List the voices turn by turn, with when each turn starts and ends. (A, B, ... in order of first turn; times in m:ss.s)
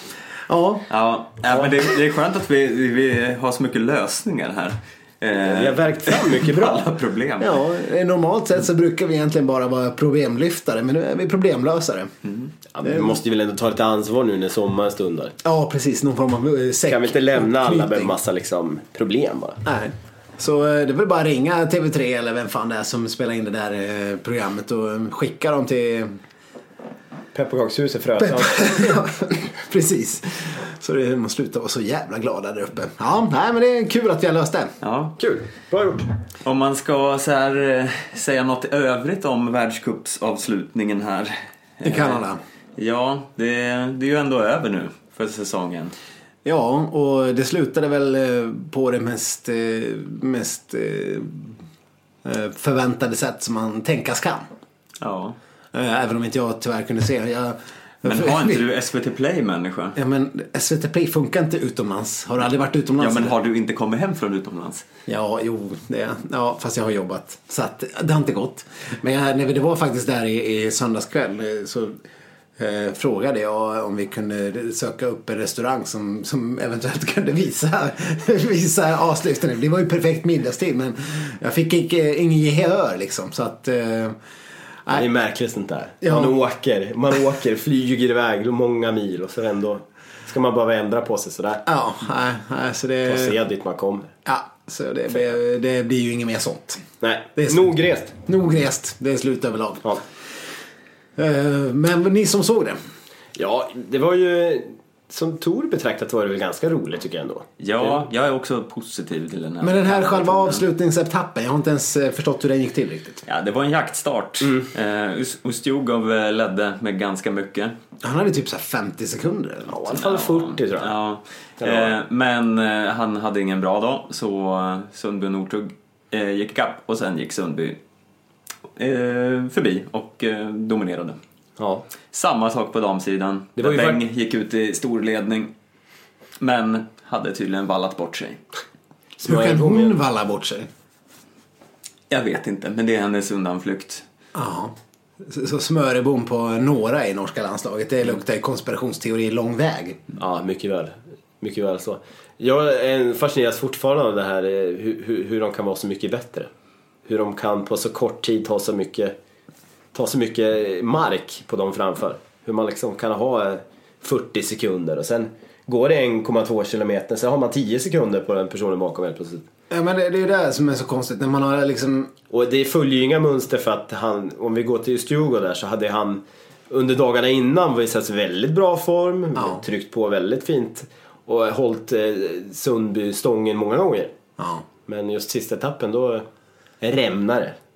0:00.5-0:00.9 A
0:00.9-0:07.6 B
0:05.4-0:06.9 C
0:07.4-0:12.1 A
0:12.7-0:15.4 C
0:12.8-0:13.1 A
0:15.4-0:18.2 A
0:16.9-0:19.6 C
0:19.6-0:26.2 A
0:27.3-0:29.0 C
0:28.2-0:34.7 A
0:34.8-0:35.2 B
0:35.2-0:36.1 C
0:36.4-0:42.2 B
0:41.8-0:42.4 A
0:42.8-0:45.9 B
0:46.4-0:51.6 A
0:52.2-0:54.4 A
0:55.0-0:55.4 B
0:55.7-0:58.6 A
0:58.0-1:00.0 B
1:00.0-1:03.3 A
1:03.0-1:04.8 B
1:05.1-1:12.0 A
1:12.6-1:24.2 A
1:24.9-1:31.6 C
1:26.0-1:26.4 A
1:31.7-1:33.4 A
1:33.1-1:34.1 C
1:34.3-1:36.8 A
1:37.0-1:38.2 C
1:37.4-1:37.7 A
1:38.2-1:39.9 A
1:41.2-1:42.8 A
1:43.4-1:47.5 C
1:47.6-1:50.6 B
1:49.6-1:53.2 A
1:53.3-1:57.7 B
1:58.0-2:00.0 A
1:59.8-2:00.9 C
1:59.9-2:07.8 B
2:01.6-2:01.9 C
2:08.8-2:11.2 B
2:11.6-2:11.8 C
2:12.1-2:15.5 B
2:13.6-2:14.0 C
2:16.4-2:18.4 B
2:19.2-2:20.0 C
2:19.2-2:20.7 A
2:22.1-2:24.0 B
2:24.3-2:30.0 A
2:30.2-2:36.5 C
2:37.1-2:39.2 C
2:39.9-2:49.5 C
2:49.7-2:52.1 A
2:52.3-3:04.1 C
3:04.4-3:04.6 A
3:04.9-3:06.3 C
3:06.8-3:07.6 C